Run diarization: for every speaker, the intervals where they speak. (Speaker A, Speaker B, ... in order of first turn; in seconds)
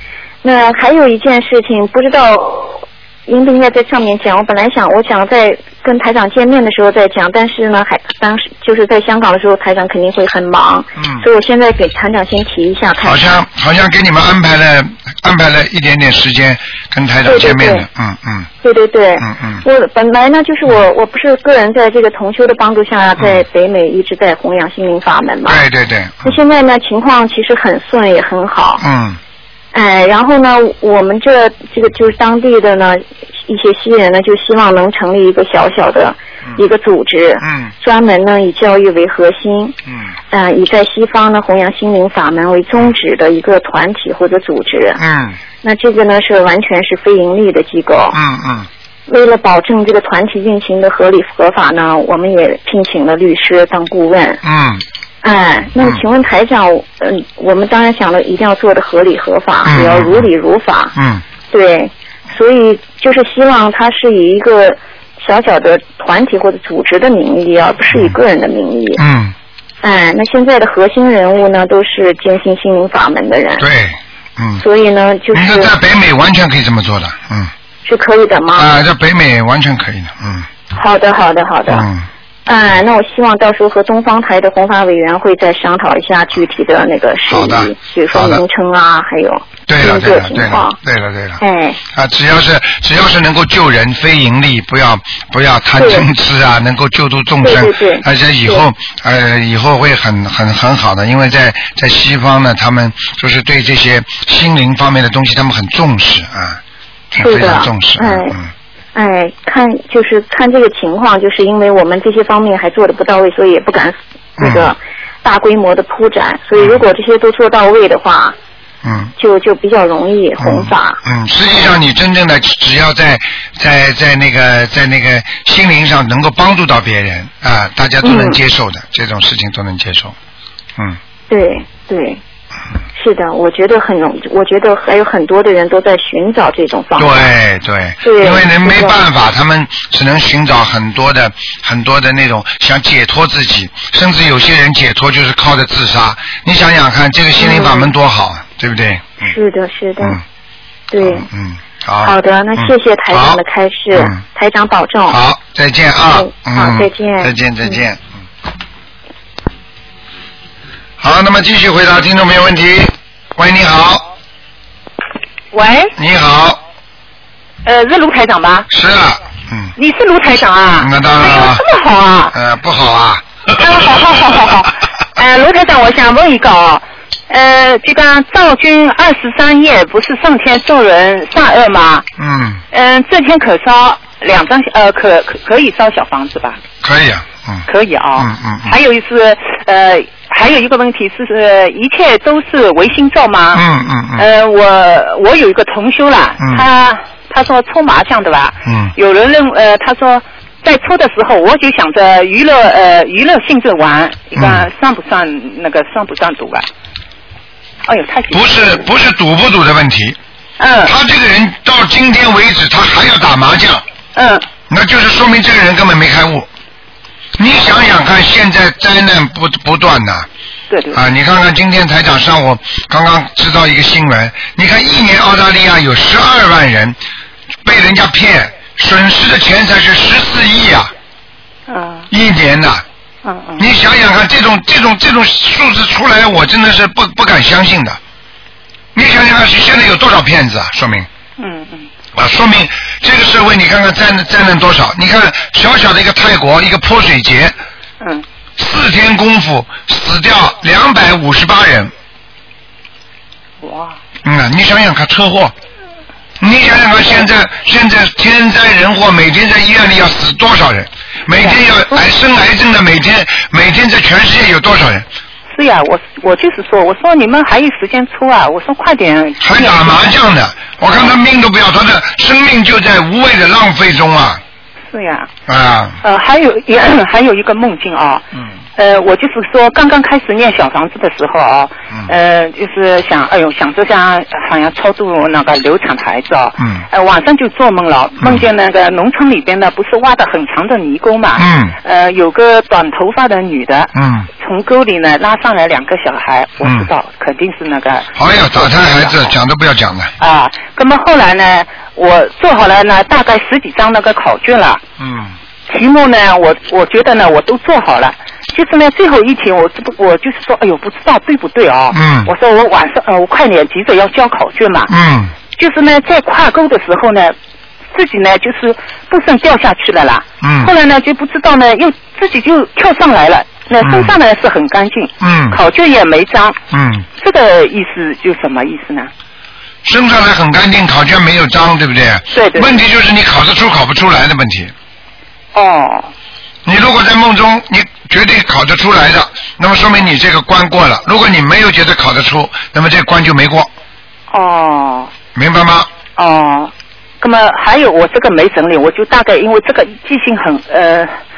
Speaker A: 0.4-13.4, 17.2-17.9, 18.6-25.6, 26.2-28.9, 29.7-39.8, 40.3-45.0, 45.6-48.2, 49.1-54.4, 55.2-61.0, 61.5-69.0, 69.8-73.7, 74.6-75.7, 77.8-78.7, 80.7-81.9, 82.5-90.8, 91.4-91.8, 95.8-96.1, 97.4-98.6, 107.2-108.4, 109.0-118.4, 119.2-121.0, 128.0-128.4, 131.3-132.2, 132.9-137.3, 138.0-139.0, 147.4-147.9, 149.2-150.2, 150.9-151.3, 152.0-155.2, 156.1-157.8
Speaker B: 11.0-11.3, 13.0-18.5, 19.2-19.6, 25.5-26.4, 28.8-29.2, 37.4-37.7, 45.0-45.4, 48.1-48.7, 54.4-54.8, 59.6-60.3, 61.0-61.2, 69.0-69.3, 73.6-74.6, 75.3-77.5, 78.5-80.5, 81.7-82.1, 87.3-88.4, 89.7-91.4, 91.9-106.6, 107.1-108.5, 114.4-114.7, 118.8-119.1, 120.4-130.2, 137.0-149.3, 151.0-153.4, 153.9-154.2, 155.1-158.1, 161.0-164.1, 166.0-166.6, 168.7-169.7, 170.8-171.6, 172.3-173.9, 182.2-182.6, 186.8-187.7, 188.2-188.8, 193.5-194.3, 196.4-196.7, 198.7-198.9, 204.4-204.7, 208.3-210.2, 210.8-213.8, 214.7-216.5, 217.4-220.3, 220.9-227.0, 227.7-230.9, 232.1-232.8, 233.6-238.0, 238.9-241.1, 242.2-247.6, 248.6-251.9, 254.2-255.5, 256.4-265.1, 269.4-274.4, 275.5-276.0, 286.6-286.8, 288.2-288.5, 291.4-291.8, 293.9-294.3, 296.6-296.9, 298.2-300.1, 305.0-305.4, 311.9-312.3, 314.9-315.3, 320.4-320.7, 323.8-324.1, 325.2-325.6, 326.7-327.1, 329.9-334.7, 336.6-343.7, 345.4-345.9
Speaker C: 165.5-165.9, 167.7-168.7, 169.8-172.3, 173.6-182.1, 182.7-186.6, 187.7-193.7, 194.2-206.7, 207.9-208.9, 210.6-210.9, 214.2-214.5, 220.7-221.0, 231.7-232.1, 233.2-233.7, 241.4-241.9, 253.6-254.0, 261.4-262.0, 265.5-270.2, 270.9-271.2, 274.9-275.3, 276.0-299.3, 300.2-304.8, 305.7-314.9, 315.6-317.4, 317.9-326.6, 327.2-329.1, 332.3-332.8, 335.6-336.1, 344.3-345.1, 346.2-351.2